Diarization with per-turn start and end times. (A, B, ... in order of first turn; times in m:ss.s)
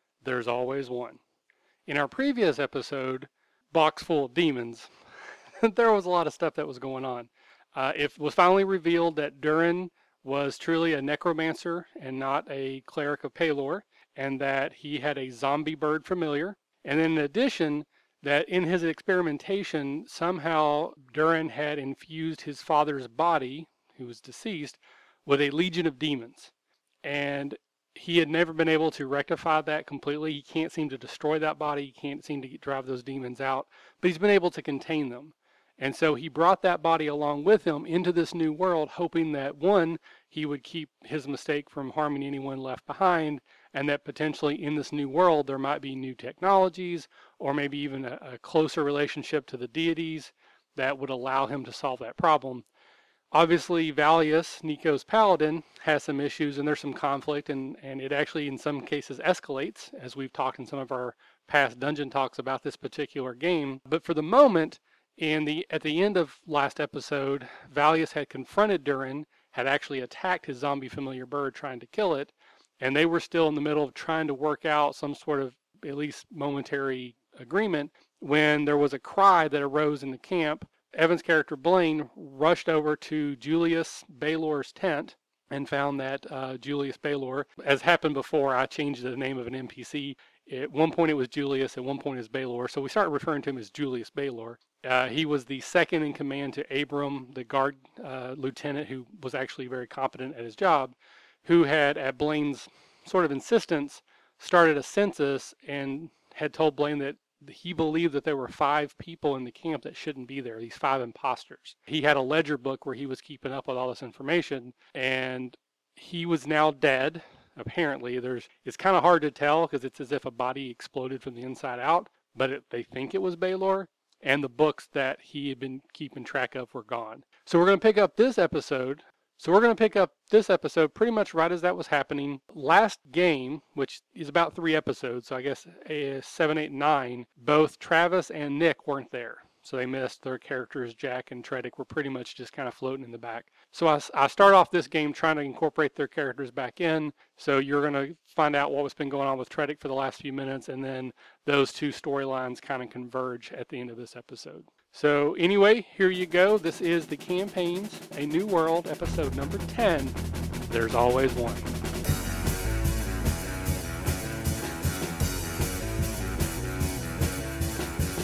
0:00.2-0:01.2 A
0:01.9-0:04.9 A
0:05.6-0:26.5 A
0:27.0-0:52.7 A
0:53.3-2:40.2 A
2:40.7-2:41.7 A